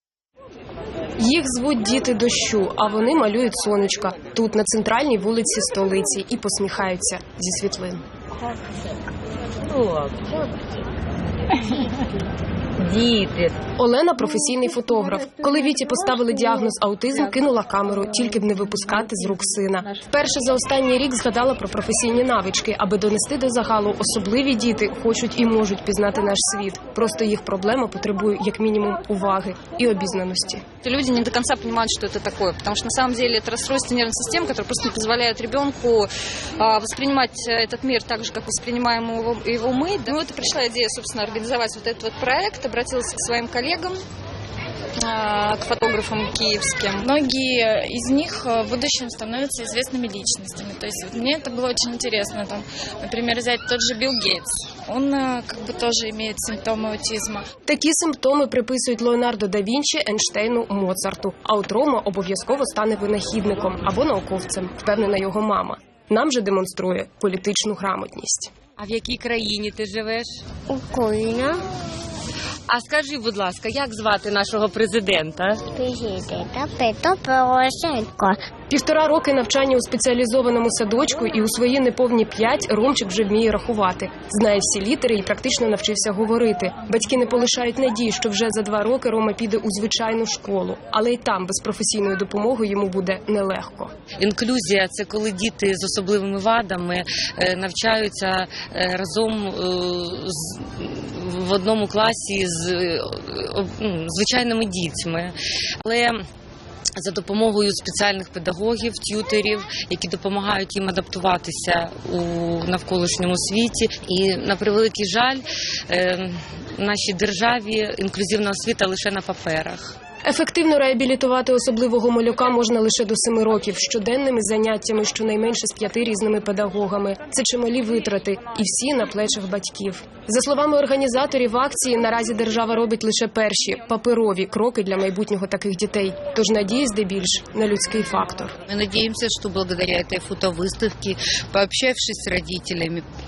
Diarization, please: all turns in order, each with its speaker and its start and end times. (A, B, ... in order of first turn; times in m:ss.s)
0:01.2-0:08.0 A
0:13.8-0:30.6 A
0:30.8-0:44.0 B
0:45.0-0:47.1 B
0:47.0-0:57.5 C
0:57.7-1:08.5 A
1:08.8-1:10.4 D
1:10.7-1:11.6 E
1:12.7-1:15.6 D
1:15.7-1:18.4 E
1:18.7-1:33.9 A
1:34.2-1:46.2 D
1:47.0-1:59.9 D
2:00.2-2:18.6 A
2:18.7-2:23.1 F